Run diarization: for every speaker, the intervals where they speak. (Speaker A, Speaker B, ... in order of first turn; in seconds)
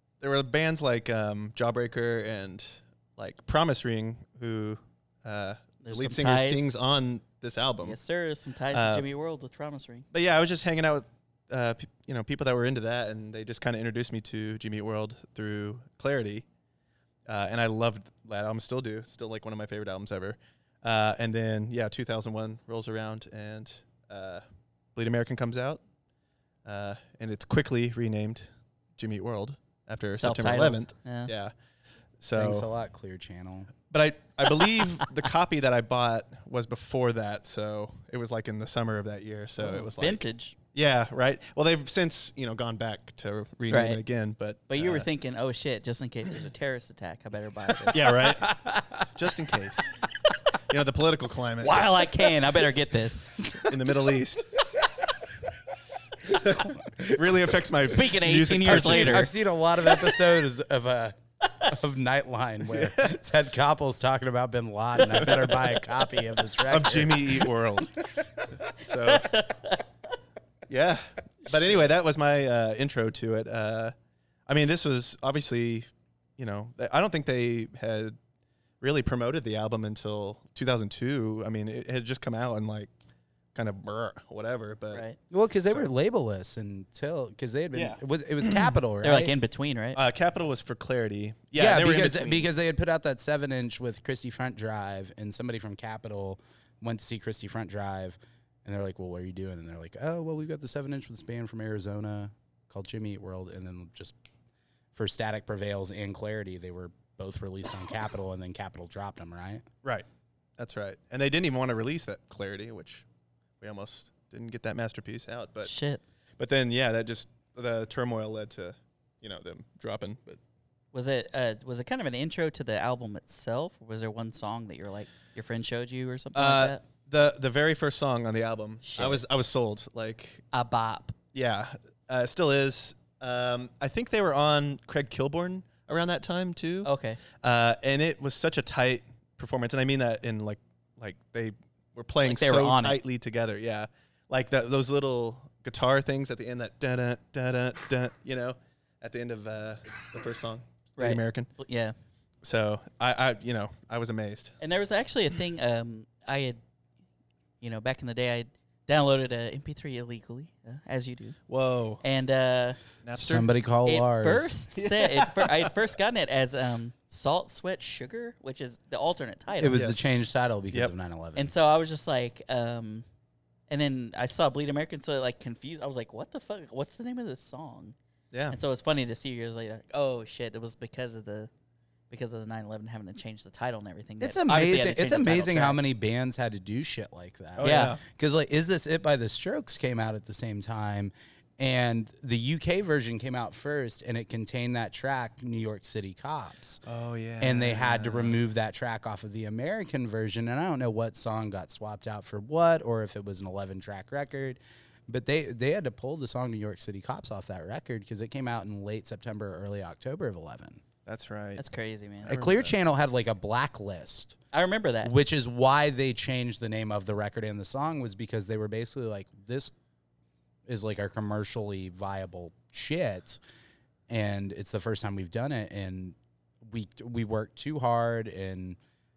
Speaker A: 0.2-8.0, 8.7-9.0, 10.1-16.4, 17.3-24.4, 24.9-25.8, 26.6-31.5, 32.2-32.7, 33.9-45.1, 47.9-50.0, 50.7-51.9, 53.6-54.5, 56.3-59.3, 66.7-68.0, 68.6-69.3, 70.7-73.9, 74.5-78.2, 78.8-82.9, 83.5-85.0, 87.7-88.8, 90.0-92.5, 110.6-113.0, 113.6-115.7, 116.4-120.4, 126.3-130.4, 131.3-136.9, 137.4-151.5, 152.4-154.5, 161.5-162.0, 163.0-163.5, 164.8-165.7, 169.7-170.2, 178.3-178.6, 187.6-188.0, 196.8-198.4, 211.1-211.6, 212.2-212.7
Speaker B: 5.8-6.7, 7.8-10.0, 30.1-31.3, 39.6-40.5, 43.7-44.0, 44.7-48.4, 51.6-53.5, 57.8-59.3, 68.9-69.8, 71.4-71.8, 84.9-85.2, 89.0-90.0, 115.6-116.0, 120.9-126.8, 128.8-129.2, 130.5-131.1, 136.8-137.2, 142.2-143.0, 151.0-151.9, 154.6-156.6, 157.6-161.4, 162.0-162.8, 163.8-169.8, 171.3-173.0, 173.7-177.9, 178.5-181.5, 182.1-185.8, 187.6-187.9, 211.6-212.5, 214.5-215.1
Speaker C: 32.3-33.7, 48.4-49.1, 56.2-57.4, 58.7-67.5, 85.3-89.3, 91.5-104.2, 104.9-109.7, 163.1-164.6, 169.6-171.5, 184.2-196.8, 197.4-210.8, 212.3-214.3, 215.0-219.7, 220.7-223.4, 224.1-228.8